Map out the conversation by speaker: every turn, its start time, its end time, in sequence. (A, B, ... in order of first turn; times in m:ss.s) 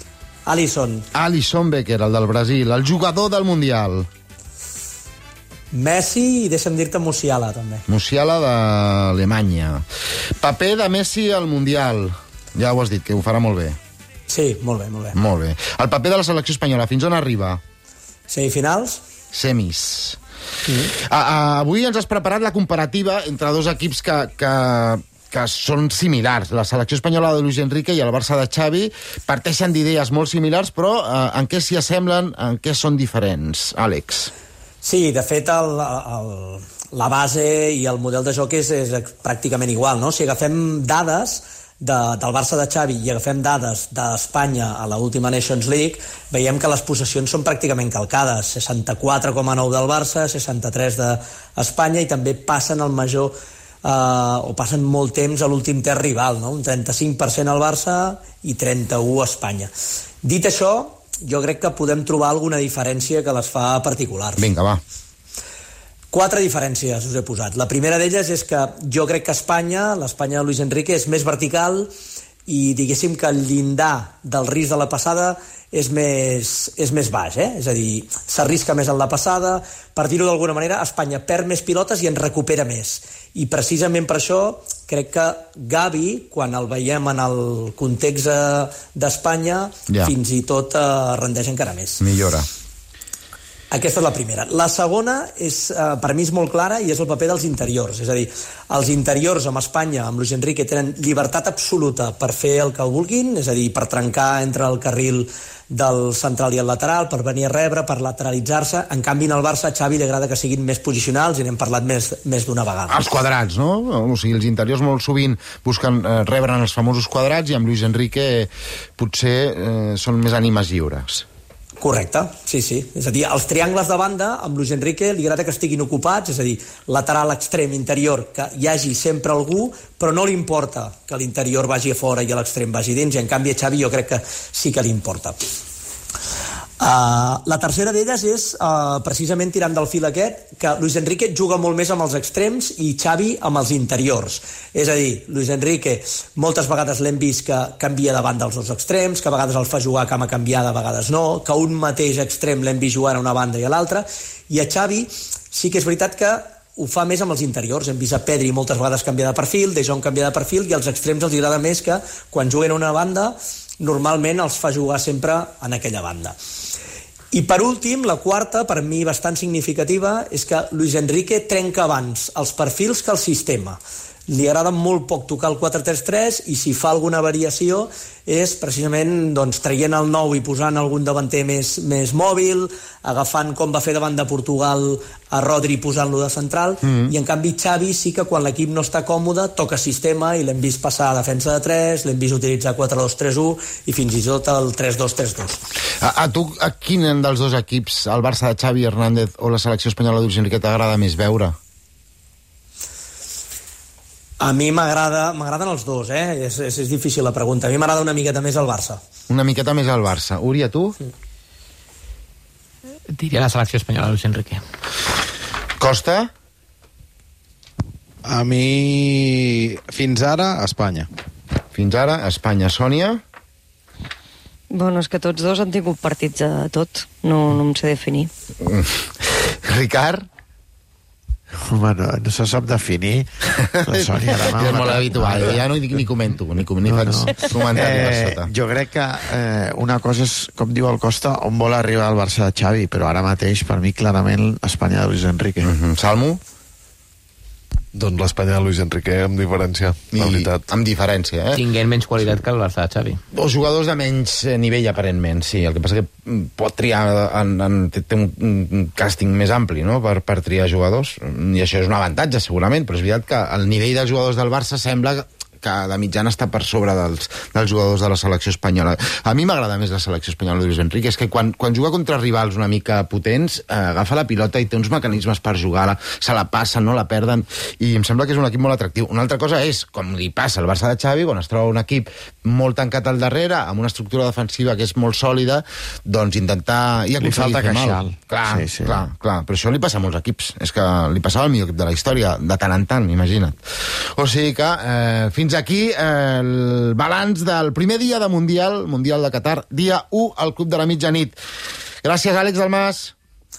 0:00.5-0:01.1 A
0:01.1-0:04.1 B
0:05.7-0:07.8 A
0:07.9-0:09.8 B
0:10.4-0:13.8 B
0:14.3-0:15.2 A
0:15.1-0:17.6 B
0:18.3-0:19.0 A
0:19.3-0:20.2 B
0:21.0-0:34.3 B
0:34.8-0:59.7 A
1:00.2-1:04.4 A
1:04.4-1:04.8 B
1:06.1-1:11.9 A
1:12.5-1:32.0 A
1:32.0-1:32.5 B
1:33.7-1:53.1 A
1:52.9-2:01.2 B
2:01.8-2:15.4 A
2:16.8-2:46.4 A
2:47.3-3:15.6 A
3:06.8-3:07.1 B
3:16.0-3:21.6 B
3:24.4-3:29.0 A
3:29.3-3:31.0 B
3:33.1-3:34.6 C
3:35.8-3:36.3 B
3:38.2-3:41.1 D
3:41.8-3:43.2 B
3:44.7-3:48.3 E
3:48.6-3:50.3 B
3:51.6-3:55.6 F
3:54.4-3:58.5 B
3:56.8-4:05.7 F
4:05.6-4:06.4 B
4:07.9-4:10.7 G
4:10.1-4:11.6 B
4:11.5-4:13.2 C
4:13.3-4:53.6 B
4:47.2-4:49.1 F
4:54.1-5:01.4 B
5:02.0-5:03.1 B